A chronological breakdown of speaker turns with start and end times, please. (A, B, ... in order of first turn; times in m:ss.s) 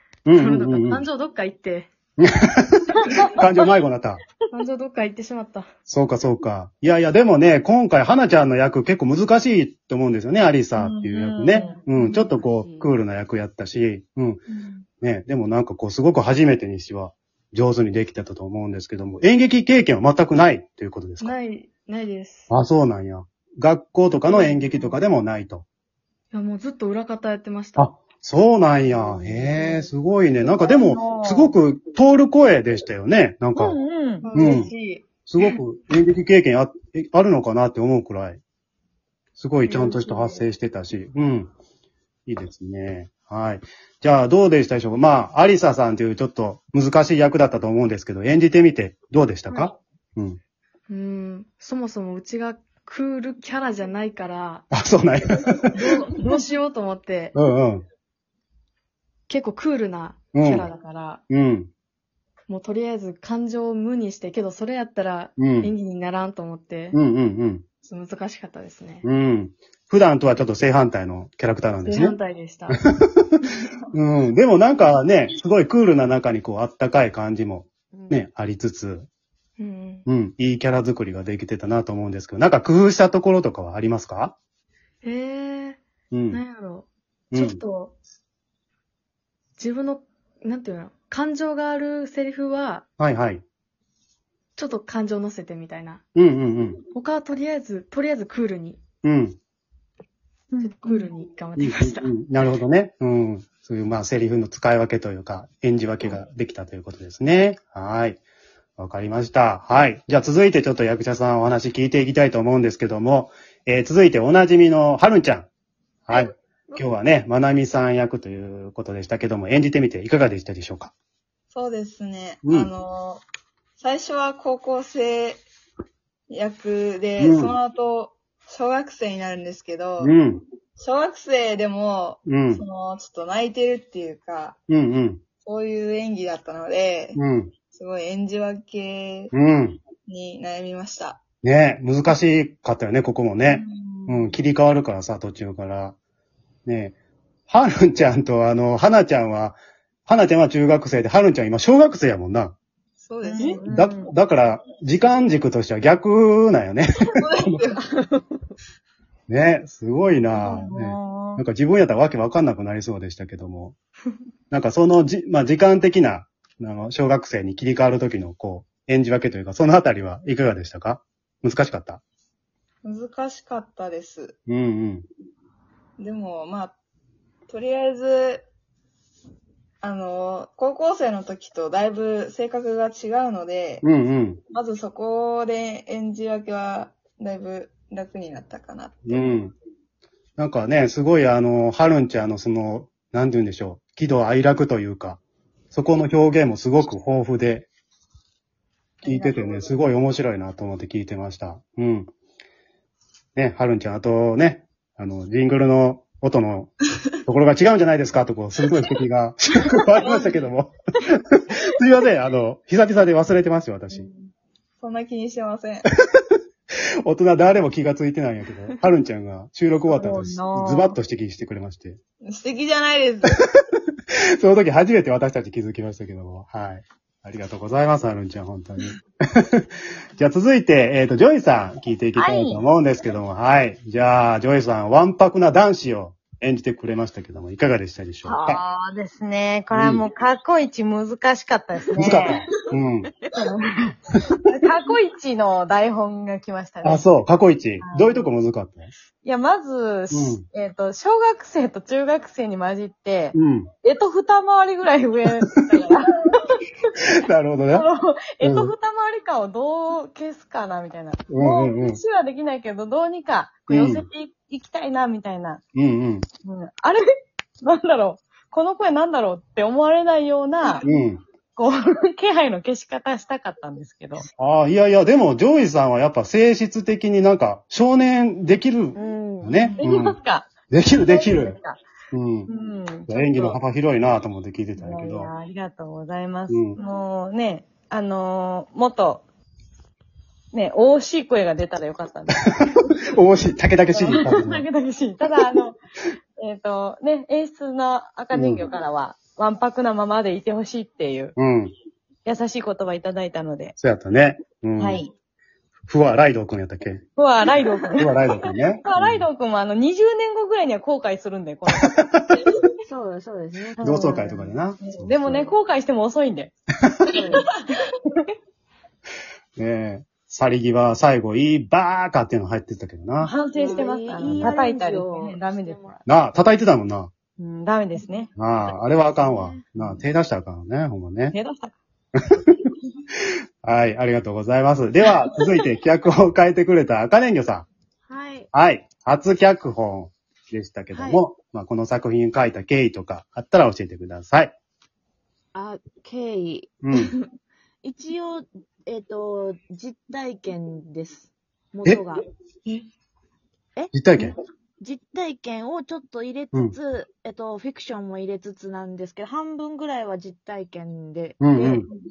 0:00.2-0:01.1 A
0:00.3-0:01.9 B
0:02.2-0:04.2 A
0:04.5-0:05.7 B
0:05.9-0:14.4 A
0:10.7-0:11.8 C
0:12.2-0:12.8 D
0:15.0-0:21.4 A
0:21.2-0:22.5 B
0:22.5-0:25.6 A
0:24.2-0:25.0 B
0:26.3-0:28.0 B
0:27.8-0:33.8 A
0:28.8-0:29.9 B
0:30.4-0:31.6 C
0:33.5-0:34.3 C
0:34.2-0:35.6 B
0:34.3-0:34.7 A
0:35.3-0:38.4 A
0:39.4-0:41.5 A
0:39.7-0:40.1 B
0:40.1-0:40.4 C
0:42.3-0:50.4 A
0:50.9-0:54.6 B
0:54.7-0:55.9 A
0:55.7-0:57.3 B
0:56.1-0:56.4 C
0:57.3-0:57.8 A
0:59.3-1:01.2 B
1:00.3-1:00.7 A
1:01.3-1:01.7 A
1:02.5-1:07.0 B
1:05.4-1:05.7 A
1:06.9-1:07.6 A
1:07.8-1:09.0 B
1:09.0-1:12.2 A
1:11.8-1:12.8 B
1:12.7-1:13.4 A
1:13.9-1:19.1 A
1:17.9-1:18.2 D
1:19.6-1:20.0 B
1:20.0-1:24.4 A
1:25.0-1:27.9 B
1:26.1-1:26.4 A
1:27.3-1:27.6 A
1:29.6-1:32.8 B
1:33.0-1:33.4 A
1:34.6-1:36.0 B
1:36.1-1:36.8 A
1:36.9-1:38.8 B
1:39.0-1:39.4 A
1:40.5-1:41.1 C
1:40.6-1:42.5 B
1:41.6-1:48.2 A
1:48.8-1:55.5 A
1:56.1-2:00.9 A
2:01.5-2:03.2 E
2:02.4-2:02.7 A
2:03.8-2:05.4 E
2:06.3-2:10.2 E
2:07.2-2:07.6 A
2:10.0-2:10.4 A
2:10.8-2:14.6 E
2:12.2-2:12.6 A
2:14.7-2:15.2 A
2:15.4-2:17.2 E
2:17.2-2:17.5 A
2:17.7-2:19.3 E
2:19.3-2:19.8 A
2:20.1-2:21.2 E
2:21.4-2:26.0 A
2:23.4-2:24.4 C
2:26.6-2:26.9 A
2:27.5-2:32.5 A
2:33.0-2:33.7 E
2:33.2-2:34.1 C
2:33.7-2:37.2 A
2:37.1-2:38.2 E
2:39.3-2:43.8 A
2:40.3-2:41.4 C
2:44.5-2:52.0 A
2:52.8-2:54.4 E
2:54.5-2:55.0 A
2:56.0-2:56.8 E
2:57.5-2:58.4 E
2:59.8-3:03.8 E
3:03.8-3:04.4 A
3:04.5-3:09.4 E
3:09.0-3:09.5 A
3:10.4-3:15.2 A
3:15.7-3:17.7 A
3:19.0-3:19.8 E
3:19.0-3:22.1 A
3:23.4-3:26.7 A
3:27.2-3:34.1 A
3:30.0-3:30.4 E
3:34.8-3:35.8 E
3:37.0-3:42.0 A
3:39.9-3:41.0 C
3:42.2-3:43.4 E
3:44.1-3:49.6 A
3:50.2-3:58.6 A
3:52.2-3:52.6 C
3:58.2-3:58.5 D
3:58.4-4:02.4 C
3:59.7-4:00.0 A
4:02.0-4:03.1 A
4:03.3-4:07.0 C
4:06.8-4:08.9 A
4:07.8-4:08.3 C
4:09.2-4:16.7 C
4:10.1-4:10.4 A
4:13.3-4:13.7 A
4:17.0-4:17.9 A
4:17.7-4:25.6 C
4:18.4-4:18.7 A
4:21.3-4:22.0 A
4:23.7-4:24.1 A
4:25.7-4:26.2 A
4:26.4-4:27.0 C
4:27.6-4:30.8 C
4:30.8-4:31.2 A
4:31.6-4:34.2 C
4:34.4-4:40.2 A
4:38.9-4:39.8 D
4:39.8-4:41.8 C
4:40.7-4:41.6 A
4:42.1-4:42.5 A
4:42.5-4:43.6 C
4:43.1-4:45.3 A
4:44.8-4:49.2 C
4:46.5-4:46.8 A
4:50.5-4:53.0 C
4:53.1-4:54.6 A
4:53.9-4:55.8 C
4:56.4-5:01.3 C
4:58.3-4:58.6 A
5:01.4-5:01.7 A
5:02.2-5:03.8 C
5:03.8-5:05.0 A
5:04.8-5:05.1 C
5:05.9-5:07.0 A
5:07.2-5:12.4 C
5:08.0-5:09.3 A
5:12.8-5:14.5 D
5:13.8-5:16.5 C
5:13.8-5:15.4 A
5:17.0-5:17.5 D
5:17.1-5:17.9 C
5:19.6-5:23.3 A
5:23.2-5:25.8 C
5:23.5-5:26.0 D
5:26.0-5:27.1 A
5:27.4-5:28.3 C
5:28.4-5:31.3 A
5:29.0-5:29.6 D
5:31.3-5:31.7 C
5:33.6-5:37.7 A
5:38.1-5:38.5 D
5:38.5-5:44.6 A
5:40.9-5:41.2 D
5:45.5-5:47.2 D
5:46.8-5:47.1 A
5:47.8-5:52.2 D
5:53.9-5:54.4 A
5:54.8-6:01.8 D
6:01.4-6:01.8 A